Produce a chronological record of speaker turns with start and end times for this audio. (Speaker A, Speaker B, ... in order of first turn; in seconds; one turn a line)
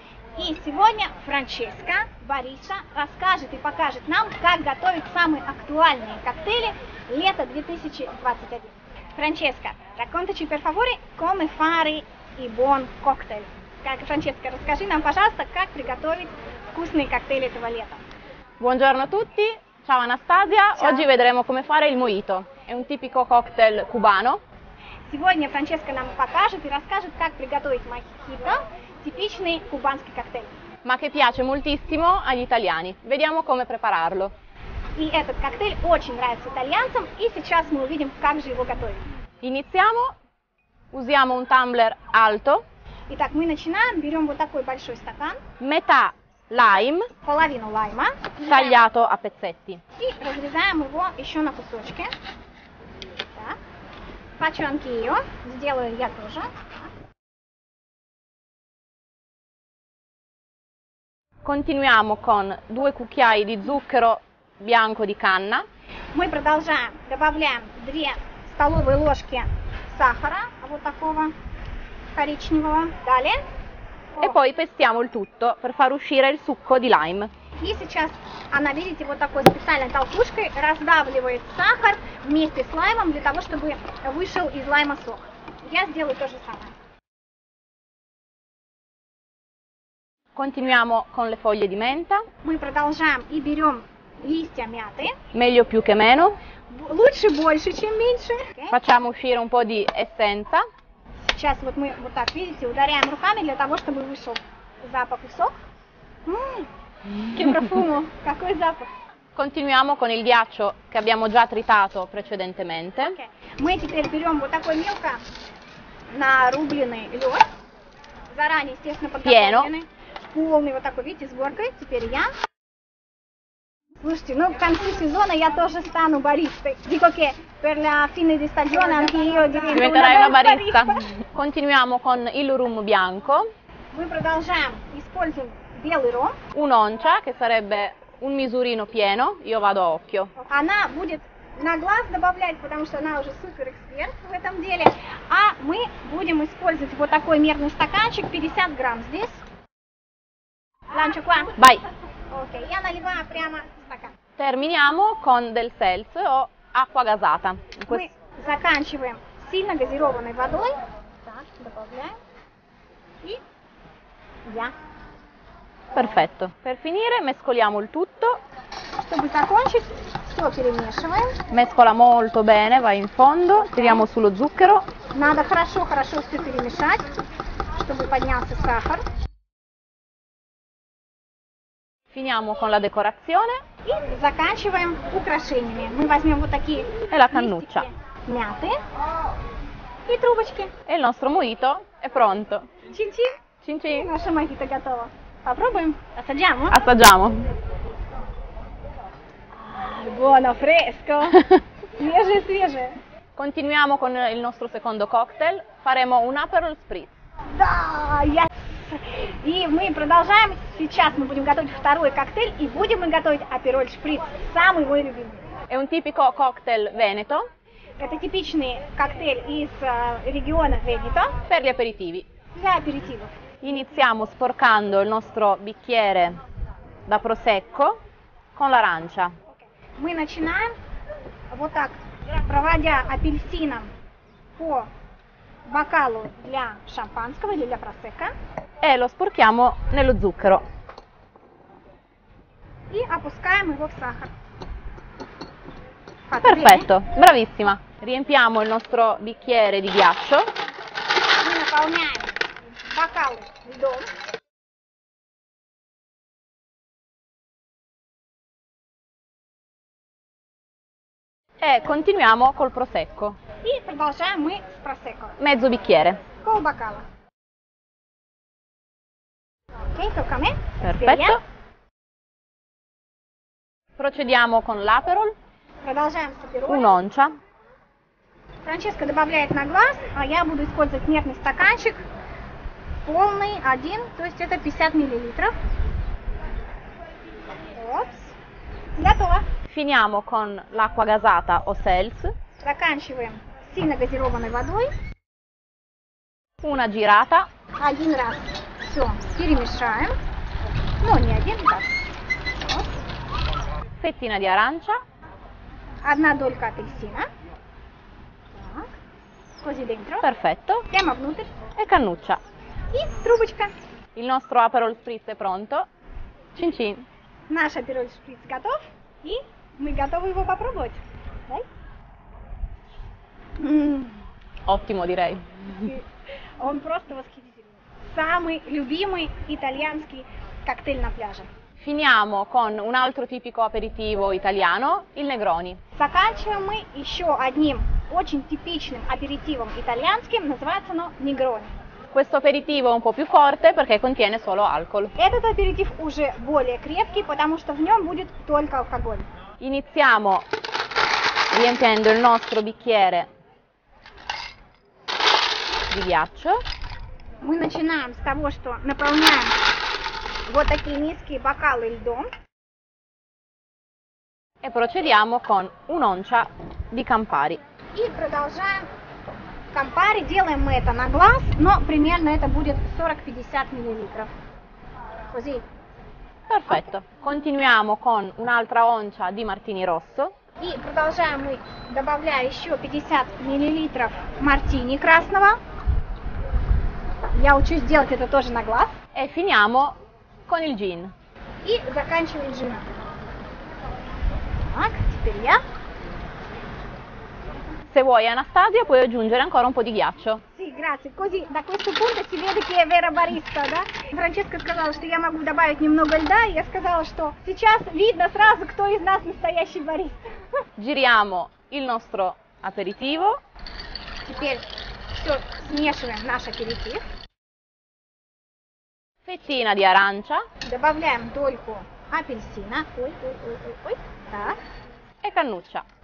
Speaker A: 0.3-18.0
Speaker B: 18.6-24.4
Speaker A: 20.8-21.1
Speaker A: 25.1-30.5
Speaker B: 30.8-34.3
Speaker A: 35.0-39.0
Speaker B: 39.4-40.1
Speaker B: 40.9-42.6
Speaker A: 43.1-45.4
Speaker B: 45.6-47.1
Speaker A: 47.2-48.8
Speaker B: 48.4-49.8
Speaker A: 50.0-52.1
Speaker A: 54.4-56.5
Speaker B: 61.4-65.6
Speaker A: 66.1-71.3
Speaker A: 72.1-73.4
Speaker B: 74.2-77.3
Speaker A: 77.6-86.8
Speaker B: 90.3-92.2
Speaker A: 92.4-95.2
Speaker B: 95.3-96.3
Speaker A: 96.7-98.8
Speaker B: 98.7-100.6
Speaker A: 101.2-105.5
Speaker A: 106.2-108.9
Speaker B: 109.3-113.2
Speaker A: 113.0-115.2
Speaker A: 116.1-117.4
Speaker A: 118.3-122.3
Speaker B: 119.2-119.7
Speaker A: 124.0-131.0
Speaker B: 129.7-133.4
Speaker A: 133.9-136.4
Speaker B: 136.5-140.3
Speaker A: 140.3-149.4
Speaker A: 150.9-151.5
Speaker B: 151.6-151.8
Speaker A: 152.3-154.1
Speaker B: 154.4-158.1
Speaker A: 157.9-162.2
Speaker A: 164.4-164.7
Speaker B: 165.9-168.4
Speaker A: 169.0-171.4
Speaker B: 171.5-174.8
Speaker A: 175.1-177.1
Speaker A: 177.7-179.0
Speaker B: 182.1-183.5
Speaker A: 183.8-188.8
Speaker B: 187.1-187.9
Speaker A: 190.1-190.7
Speaker B: 190.9-192.7
Speaker A: 192.9-193.3
Speaker B: 193.6-194.1
Speaker A: 193.9-196.8
Speaker B: 196.7-197.4
Speaker A: 199.6-203.0
Speaker B: 203.3-207.1
Speaker A: 207.5-215.4
Speaker B: 215.7-217.5
Speaker A: 218.0-221.3
Speaker B: 221.5-222.3
Speaker A: 222.6-223.4
Speaker B: 223.6-226.4
Speaker B: 227.1-228.0
Speaker B: 228.5-229.3
Speaker A: 229.5-230.7
Speaker A: 231.5-233.9
Speaker A: 234.6-234.9
Speaker A: 235.7-238.3
Speaker B: 238.8-240.6
Speaker A: 242.9-244.3
Speaker A: 246.3-246.9
Speaker B: 246.4-250.5
Speaker A: 251.4-254.1
Speaker B: 261.6-263.4
Speaker A: 263.6-265.4
Speaker B: 265.4-266.2
Speaker A: 266.4-267.0
Speaker A: 269.8-271.4
Speaker B: 270.8-271.4
Speaker B: 274.0-275.3
Speaker A: 275.8-276.9
Speaker B: 276.7-277.4
Speaker A: 278.6-282.1
Speaker A: 283.0-285.5
Speaker A: 287.7-288.3
Speaker A: 289.0-289.4
Speaker B: 289.7-292.3
Speaker A: 292.6-294.9
Speaker B: 296.6-297.5
Speaker A: 297.8-300.1
Speaker A: 301.0-302.1
Speaker A: 302.6-302.9
Speaker B: 304.0-305.0
Speaker A: 306.0-307.2
Speaker A: 308.5-308.9
Speaker A: 309.6-310.2
Speaker B: 310.2-310.9
Speaker A: 310.9-311.5
Speaker B: 311.8-312.4
Speaker A: 312.9-313.7
Speaker B: 314.1-315.9
Speaker B: 316.6-317.1
Speaker A: 317.5-321.6
Speaker A: 323.6-324.2
Speaker B: 324.6-325.9
Speaker A: 325.7-326.0
Speaker A: 326.6-331.5
Speaker B: 331.8-335.8
Speaker A: 335.9-341.7
Speaker B: 342.1-345.1
Speaker A: 345.1-349.3
Speaker B: 349.6-350.4
Speaker B: 351.5-353.3
Speaker B: 355.9-356.6
Speaker A: 357.4-359.6
Speaker A: 360.5-362.3
Speaker B: 364.6-367.6
Speaker A: 367.9-368.9
Speaker A: 369.7-374.3
Speaker A: 375.3-375.6
Speaker B: 376.5-380.3
Speaker A: 380.6-385.6
Speaker A: 387.3-388.9
Speaker B: 389.1-391.1
Speaker A: 391.6-392.9
Speaker A: 394.6-395.6
Speaker B: 397.9-400.4
Speaker A: 400.5-410.2
Speaker B: 410.8-413.4
Speaker A: 414.2-417.0
Speaker B: 419.2-420.4
Speaker A: 420.6-424.6
Speaker B: 425.2-425.8